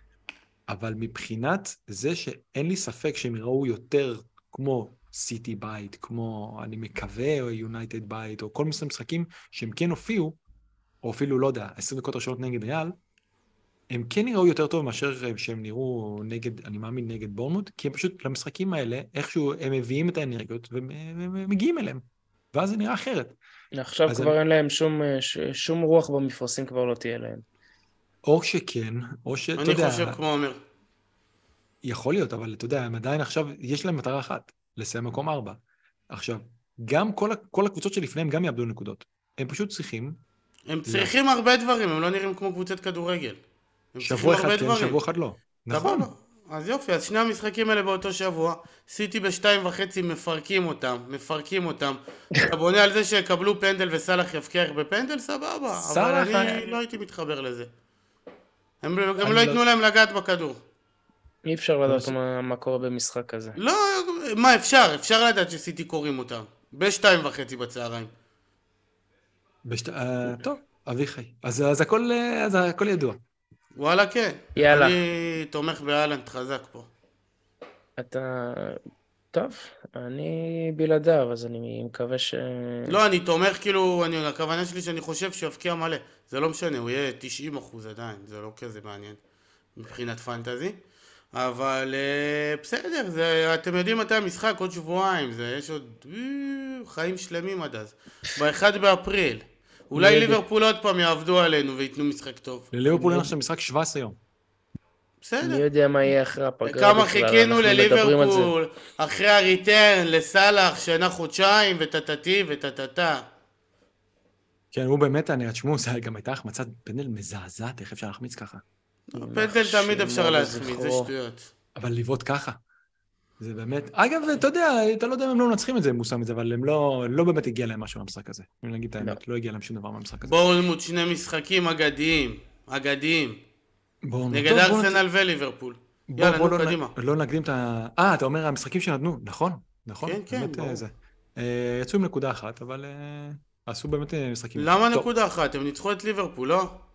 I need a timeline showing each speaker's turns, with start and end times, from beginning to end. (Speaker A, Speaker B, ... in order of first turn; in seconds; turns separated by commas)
Speaker A: 0.7-10.4, Speaker A: 11.0-12.9, Speaker A: 13.9-22.0, Speaker A: 22.5-23.3, Speaker B: 23.8-27.4, Speaker A: 24.1-24.4, Speaker A: 28.2-30.2, Speaker C: 29.6-30.6, Speaker A: 31.8-35.6, Speaker A: 36.1-40.2, Speaker C: 40.7-43.4, Speaker A: 40.9-41.1, Speaker C: 43.9-45.0, Speaker A: 44.0-46.1, Speaker C: 45.7-57.7, Speaker A: 55.8-56.7, Speaker C: 58.8-60.6, Speaker A: 59.2-59.6, Speaker B: 61.5-63.6, Speaker A: 61.9-62.1, Speaker C: 63.6-68.1, Speaker A: 69.7-73.2, Speaker C: 73.8-76.9, Speaker B: 74.6-75.0, Speaker B: 78.0-78.8, Speaker B: 79.3-83.0, Speaker C: 82.9-89.2, Speaker C: 89.8-90.8, Speaker C: 91.3-102.7, Speaker B: 100.0-100.4, Speaker A: 102.7-104.2, Speaker B: 102.9-103.3, Speaker C: 105.2-105.6, Speaker B: 105.4-108.5, Speaker C: 106.6-113.2, Speaker A: 114.7-118.6, Speaker C: 119.1-121.5, Speaker B: 119.1-121.1, Speaker A: 121.8-122.6, Speaker A: 123.4-130.4, Speaker C: 130.2-133.4, Speaker A: 134.1-135.0, Speaker C: 134.3-136.9, Speaker A: 136.1-145.1, Speaker C: 140.0-140.8, Speaker C: 144.6-146.8